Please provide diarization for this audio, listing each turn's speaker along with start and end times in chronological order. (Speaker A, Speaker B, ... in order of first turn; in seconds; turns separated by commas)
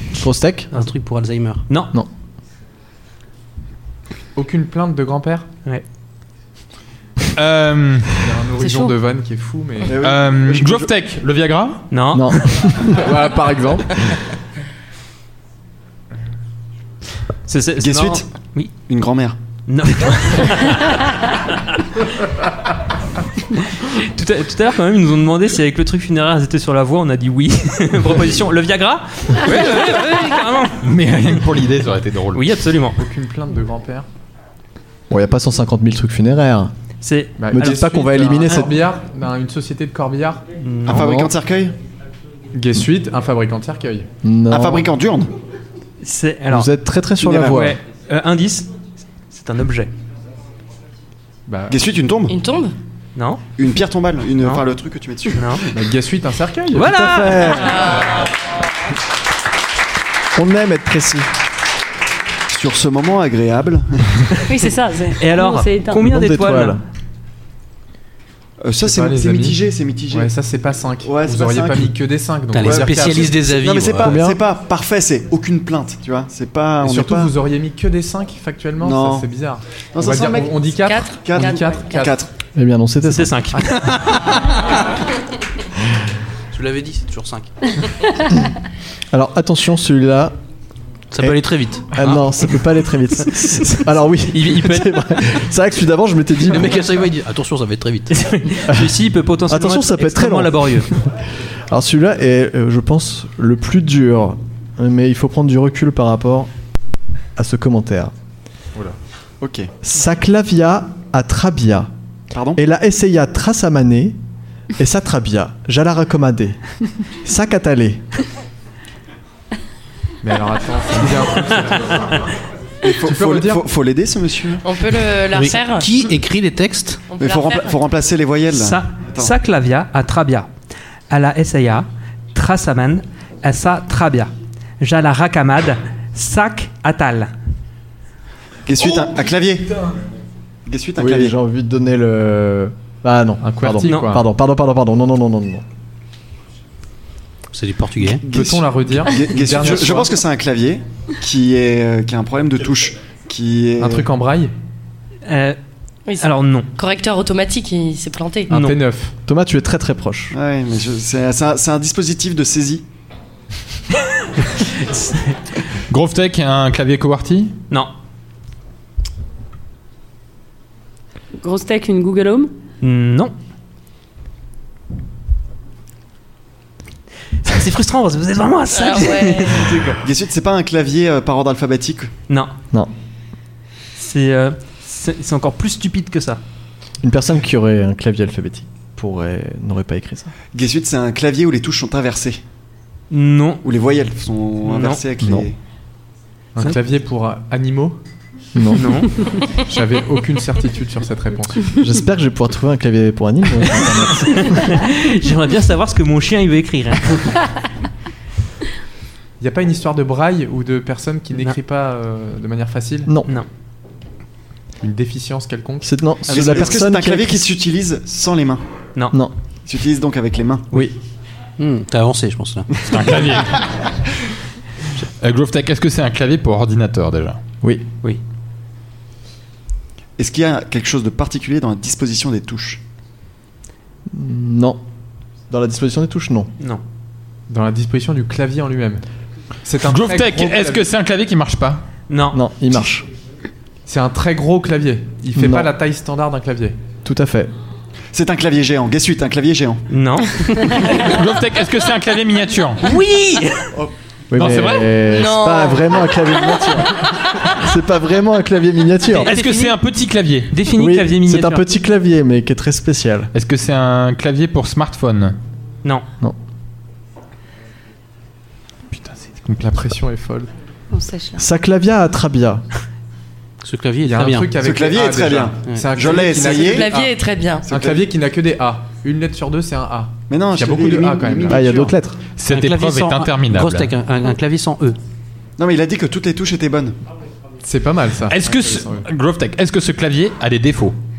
Speaker A: 0.2-0.7, Speaker B: 0.7-1.6, Speaker C: 1.7-1.9, Speaker D: 4.3-5.5, Speaker E: 7.3-8.2, Speaker D: 8.2-10.0, Speaker F: 8.6-8.9, Speaker G: 9.8-10.9, Speaker E: 10.0-11.8, Speaker C: 11.9-12.3, Speaker A: 12.1-13.1, Speaker D: 13.0-14.1, Speaker C: 17.5-18.7, Speaker G: 17.8-18.3, Speaker G: 18.9-19.4, Speaker C: 19.7-21.0, Speaker C: 23.8-30.9, Speaker E: 30.8-32.5, Speaker C: 32.3-33.0, Speaker D: 33.0-34.1, Speaker A: 35.1-36.7, Speaker C: 37.0-37.4, Speaker D: 37.4-40.5, Speaker A: 37.5-38.8, Speaker C: 40.6-41.2, Speaker G: 40.9-41.8, Speaker A: 40.9-41.3, Speaker D: 42.5-44.1, Speaker A: 44.2-44.9, Speaker G: 44.5-45.3, Speaker C: 46.0-46.7, Speaker A: 46.5-47.8, Speaker G: 47.2-47.6, Speaker C: 47.3-48.7, Speaker C: 49.3-49.9, Speaker D: 51.5-51.8, Speaker G: 51.7-52.4, Speaker H: 52.3-52.7, Speaker C: 53.2-53.4, Speaker G: 53.6-55.7, Speaker C: 55.4-55.6, Speaker D: 55.7-56.9, Speaker C: 56.7-57.7, Speaker A: 56.8-57.8, Speaker H: 57.7-58.2, Speaker A: 60.4-61.3, Speaker G: 62.5-64.2, Speaker F: 64.5-66.0, Speaker C: 65.2-66.8, Speaker A: 66.0-66.8, Speaker G: 68.6-70.3, Speaker D: 68.8-69.6, Speaker D: 70.1-73.5, Speaker G: 71.0-71.9, Speaker B: 72.5-74.2, Speaker G: 72.7-77.3, Speaker A: 74.0-74.4, Speaker D: 76.8-82.1, Speaker G: 78.8-79.3, Speaker G: 79.9-82.3, Speaker H: 80.8-82.1, Speaker A: 82.5-83.4, Speaker C: 83.1-84.3, Speaker D: 83.5-83.8, Speaker B: 86.5-87.5, Speaker A: 89.1-90.3, Speaker B: 91.1-92.0, Speaker A: 91.2-96.9, Speaker B: 94.5-94.8, Speaker B: 96.5-98.2, Speaker C: 98.1-100.9, Speaker A: 98.7-98.9, Speaker A: 99.5-101.1, Speaker A: 101.7-106.5, Speaker A: 107.4-108.1, Speaker G: 109.4-109.7, Speaker A: 109.8-111.9, Speaker G: 112.3-112.6, Speaker A: 112.6-114.2, Speaker A: 114.8-116.6, Speaker A: 117.2-118.0, Speaker D: 120.2-122.1, Speaker G: 122.8-124.6, Speaker D: 123.0-123.7, Speaker H: 124.6-125.9, Speaker B: 125.3-127.0, Speaker H: 127.1-127.8, Speaker G: 127.2-129.3, Speaker C: 128.5-130.5, Speaker C: 131.1-137.3, Speaker G: 138.7-139.7, Speaker G: 140.7-141.4, Speaker A: 141.0-145.6, Speaker D: 143.4-144.3, Speaker C: 143.8-144.1, Speaker B: 147.5-148.2, Speaker D: 148.2-150.2, Speaker G: 148.2-154.1, Speaker D: 153.8-154.5, Speaker C: 155.3-155.6, Speaker H: 156.1-158.5, Speaker C: 156.2-156.7, Speaker C: 158.5-158.8, Speaker D: 158.5-159.1, Speaker A: 159.3-160.3, Speaker G: 160.3-162.8, Speaker C: 164.6-165.4, Speaker E: 165.9-167.6, Speaker F: 171.4-172.5, Speaker C: 172.8-173.3, Speaker C: 177.4-180.0, Speaker H: 178.8-179.8, Speaker G: 180.0-182.1, Speaker C: 184.0-186.4, Speaker A: 187.0-190.3, Speaker G: 190.5-192.4, Speaker C: 193.1-193.6, Speaker G: 193.6-195.6, Speaker C: 194.7-195.0, Speaker A: 195.2-195.5, Speaker D: 196.6-198.0, Speaker A: 198.6-199.1, Speaker C: 198.8-199.1, Speaker D: 199.6-201.8, Speaker A: 201.8-204.7, Speaker C: 204.3-207.4, Speaker D: 209.4-213.1, Speaker D: 214.8-216.7, Speaker A: 215.8-217.4, Speaker G: 216.3-218.6, Speaker G: 219.7-220.8, Speaker B: 221.6-222.7, Speaker E: 222.9-223.8, Speaker E: 225.2-227.4, Speaker G: 230.2-232.8, Speaker A: 234.1-234.8, Speaker A: 235.5-236.5, Speaker D: 237.5-239.0, Speaker D: 239.7-240.8, Speaker E: 239.8-241.8, Speaker C: 242.1-242.4, Speaker A: 242.3-243.1, Speaker D: 243.9-246.8, Speaker A: 245.3-245.7, Speaker A: 247.0-247.5, Speaker G: 248.1-249.8, Speaker C: 249.9-251.0, Speaker E: 250.9-252.8, Speaker C: 252.8-253.7, Speaker A: 254.3-259.3, Speaker E: 254.3-254.9, Speaker H: 255.0-256.7, Speaker C: 259.1-259.8, Speaker E: 259.3-260.5, Speaker C: 260.5-261.7, Speaker A: 260.8-263.3, Speaker E: 263.3-265.4, Speaker E: 268.9-269.8, Speaker D: 269.6-270.5, Speaker F: 270.9-271.4, Speaker A: 271.4-272.6, Speaker B: 273.6-274.6, Speaker D: 274.0-281.8, Speaker G: 274.6-276.9, Speaker H: 276.4-277.7, Speaker G: 277.7-278.0, Speaker G: 280.3-281.9, Speaker A: 281.5-282.2, Speaker E: 282.4-283.9, Speaker B: 282.5-285.0, Speaker G: 285.6-286.9, Speaker D: 287.6-289.1, Speaker E: 288.3-290.9